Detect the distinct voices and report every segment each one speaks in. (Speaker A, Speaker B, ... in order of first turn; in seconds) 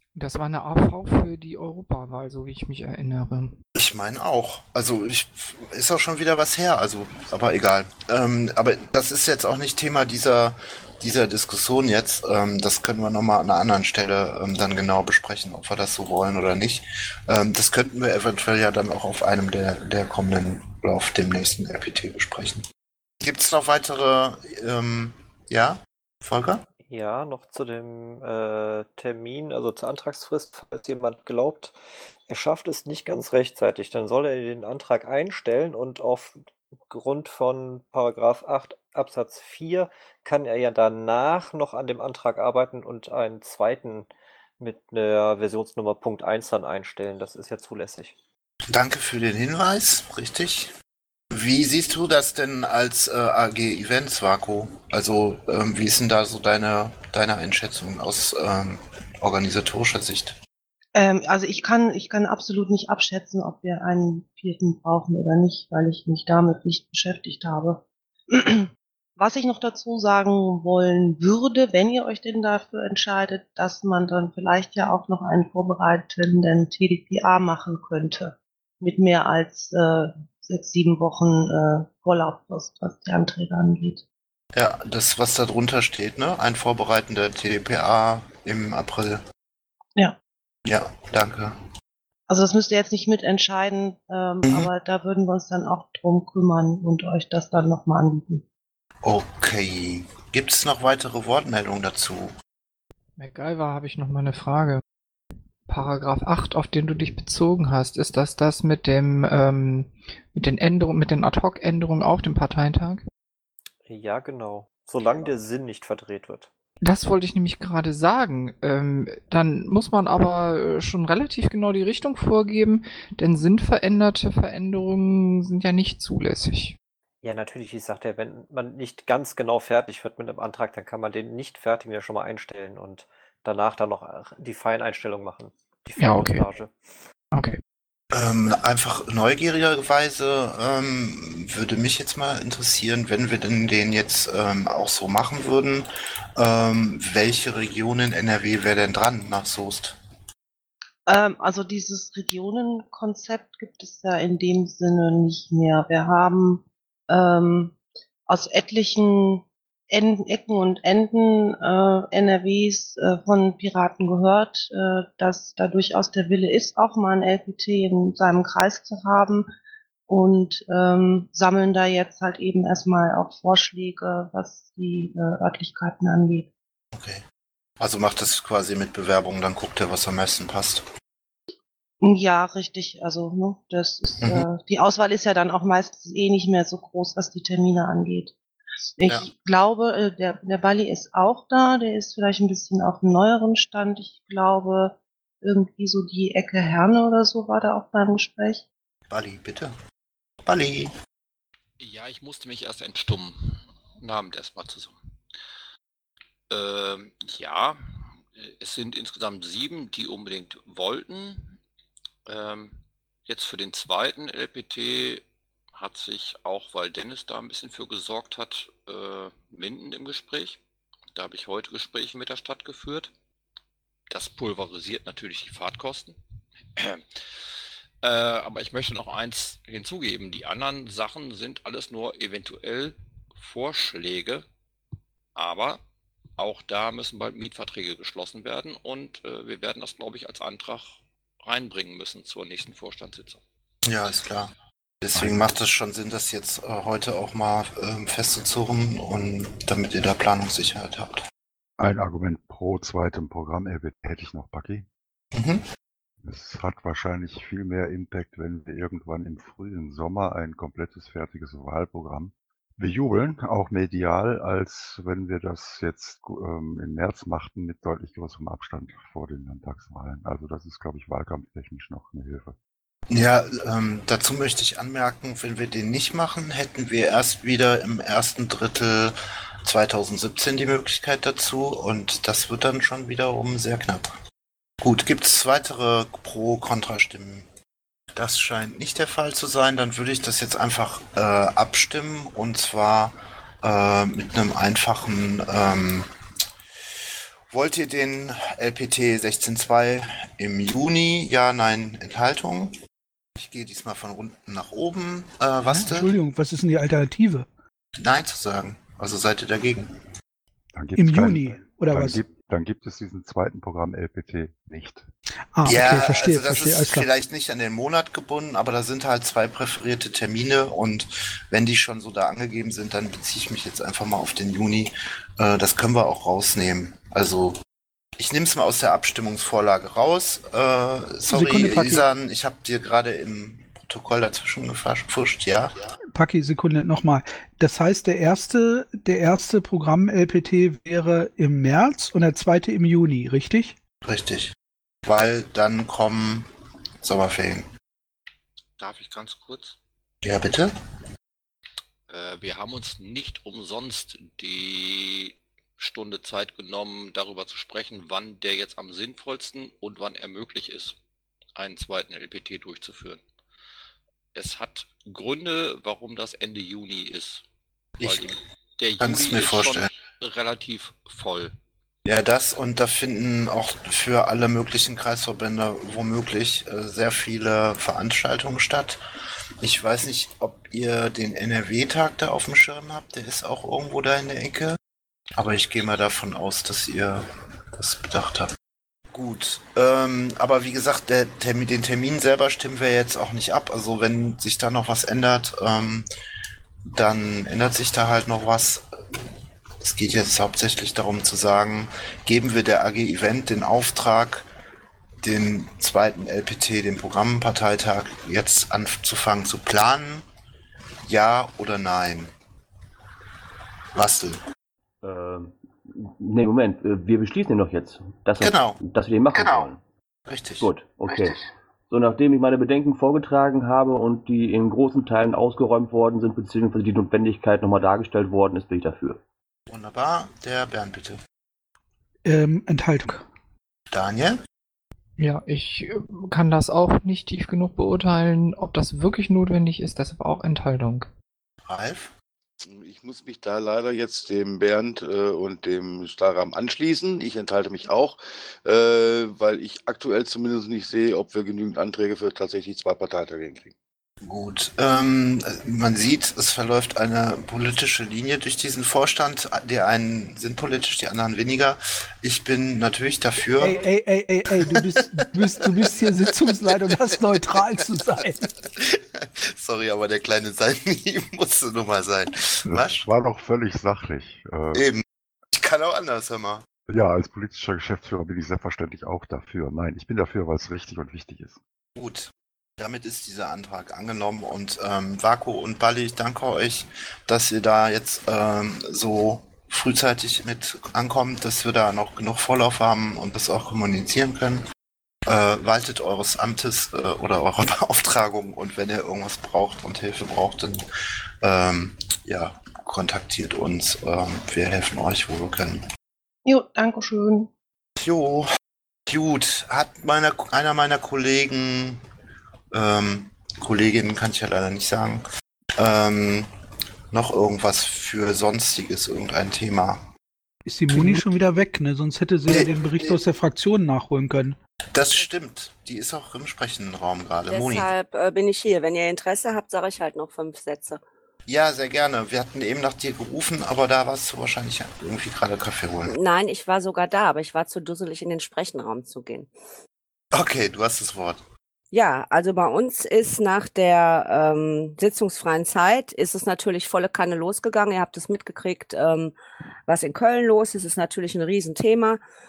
Speaker A: 0.1-3.5, 103.2-104.8, 105.7-113.0, 116.8-126.8, 136.0-136.4, 137.3-137.6, 435.2-441.1
Speaker B: 3.8-22.6, 23.2-26.6, 48.7-50.7, 51.3-60.4, 84.5-89.2, 90.7-91.6, 99.0-102.3, 138.1-150.0, 176.9-177.2, 177.8-180.9, 199.1-199.7, 200.4-200.9, 243.9-251.2, 255.3-255.6, 273.1-284.1, 284.8-287.5, 288.1-296.1, 297.5-302.7, 303.4-306.1, 308.0-309.9, 315.6-327.6, 328.2-335.7, 344.1-344.5, 345.1-346.5, 347.0-347.7, 350.2-350.7, 368.0-368.4, 369.0-369.8, 372.1-379.0, 379.6-384.8, 385.4-388.5, 389.1-396.1, 396.9-398.8, 399.8-404.4, 405.2-410.3, 411.1-412.3, 413.9-414.4, 418.4-418.8, 419.3-419.6, 420.3-420.7, 429.7-431.2, 433.9-434.4, 441.6-442.1, 454.2-463.8, 468.4-473.0, 474.7-476.6, 481.9-494.6, 495.3-500.8, 501.4-505.8, 508.0-508.5, 509.1-512.0, 512.7-515.2, 515.8-516.5, 517.1-520.0, 520.9-521.2, 522.5-523.2, 524.9-527.9, 531.5-536.1, 540.3-541.4
Speaker C: 26.9-31.8, 32.3-44.1, 44.6-48.1, 113.8-116.5, 127.2-136.7
Speaker D: 60.9-84.0, 92.3-98.4, 151.1-157.8, 158.3-169.5, 170.1-176.5, 182.0-188.3, 189.0-198.6, 506.4-507.5
Speaker E: 201.8-205.0, 206.5-211.6, 212.3-220.6, 221.1-223.1, 224.1-226.2, 226.7-227.1, 228.0-234.4, 235.3-235.8, 236.4-243.4, 348.8-349.8, 352.1-361.0, 361.6-363.2, 364.3-367.4, 368.0-371.6
Speaker F: 245.2-245.4, 251.8-254.9, 256.2-272.6, 310.7-315.1, 472.6-474.8, 476.9-481.6
Speaker G: 305.7-307.5, 310.9-312.2, 315.6-317.1, 331.3-332.0, 336.1-343.7, 432.2-433.3, 463.6-468.4, 520.6-524.6
Speaker H: 415.0-419.8, 420.6-429.2
Speaker I: 442.6-453.7
Speaker J: 527.5-531.0, 536.0-539.5, 541.9-549.3, 549.9-552.2